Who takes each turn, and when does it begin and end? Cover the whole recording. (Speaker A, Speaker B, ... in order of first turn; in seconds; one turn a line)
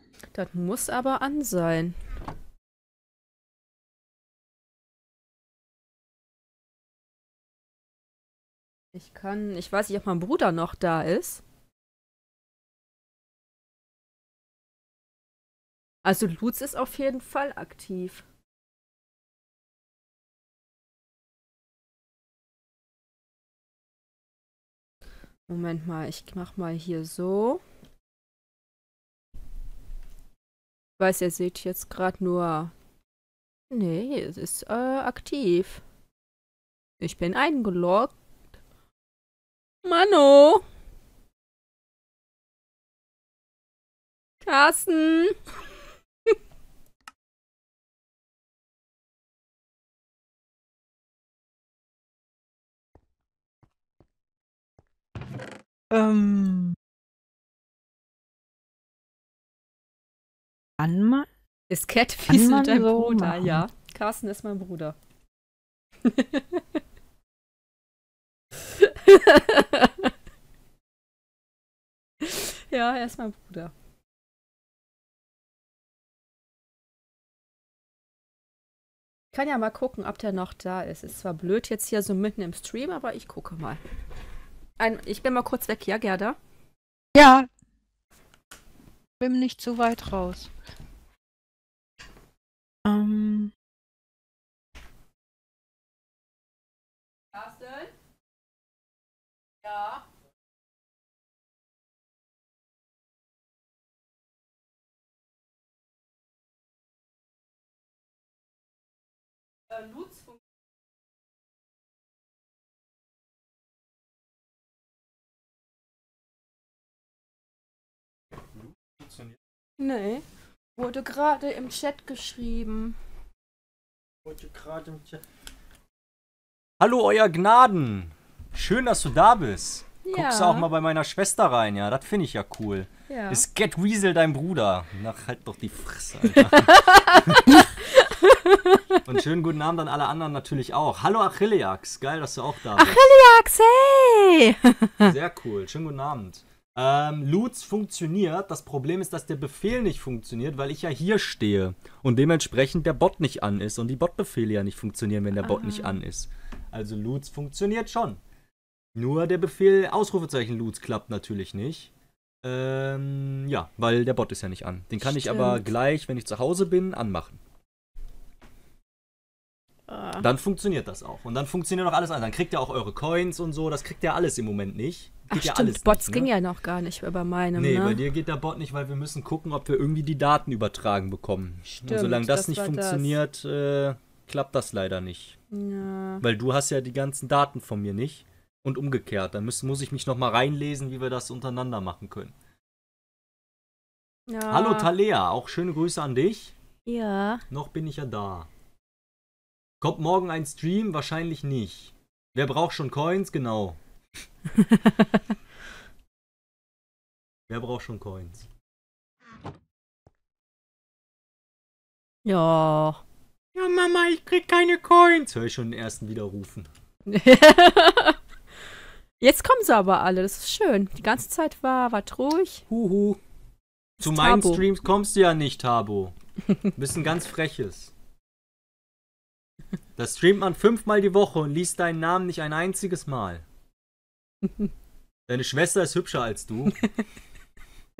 Speaker A: 0.3-2.0
Speaker A: 8.9-11.4
Speaker A: 16.0-18.2
Speaker A: 25.5-27.6
Speaker A: 31.0-32.7
Speaker A: 33.7-35.8
Speaker A: 37.0-38.1
Speaker A: 39.8-40.6
Speaker A: 44.4-45.3
Speaker B: 55.9-56.8
Speaker B: 60.8-61.3
Speaker A: 61.7-65.0
Speaker B: 62.3-63.6
Speaker A: 66.0-66.6
Speaker A: 68.6-70.1
Speaker A: 72.2-73.7
Speaker A: 79.3-83.8
Speaker A: 84.8-86.4
Speaker B: 87.1-87.5
Speaker B: 89.2-90.5
Speaker B: 92.8-93.5
Speaker A: 97.3-97.9
Speaker A: 99.6-100.0
Speaker A: 109.7-110.2
Speaker C: 118.6-119.3
Speaker A: 119.8-120.2
Speaker A: 120.7-123.0
Speaker C: 124.2-125.2
Speaker C: 126.8-137.6
Speaker A: 130.0-130.7
Speaker A: 133.1-133.4
Speaker A: 136.3-139.0
Speaker C: 139.1-143.1
Speaker A: 142.8-145.1
Speaker C: 145.0-158.2
Speaker A: 155.4-156.0
Speaker C: 158.9-161.9
Speaker C: 162.4-167.4
Speaker A: 165.0-165.7
Speaker A: 169.9-170.3
Speaker C: 170.2-176.3
Speaker A: 175.3-178.0
Speaker C: 177.5-185.3
Speaker A: 181.7-183.2
Speaker A: 185.5-186.2
Speaker C: 186.2-192.3
Speaker A: 194.3-194.9
Speaker C: 194.5-196.5
Speaker A: 196.8-197.4
Speaker C: 197.5-198.5
Speaker C: 199.8-203.8
Speaker A: 204.6-205.1
Speaker C: 207.5-208.4
Speaker A: 212.2-213.0
Speaker C: 213.5-216.7
Speaker A: 217.1-218.2
Speaker A: 219.2-222.6
Speaker C: 222.7-223.2
Speaker A: 224.0-224.6
Speaker C: 224.0-227.9
Speaker C: 230.0-233.4
Speaker C: 235.3-236.8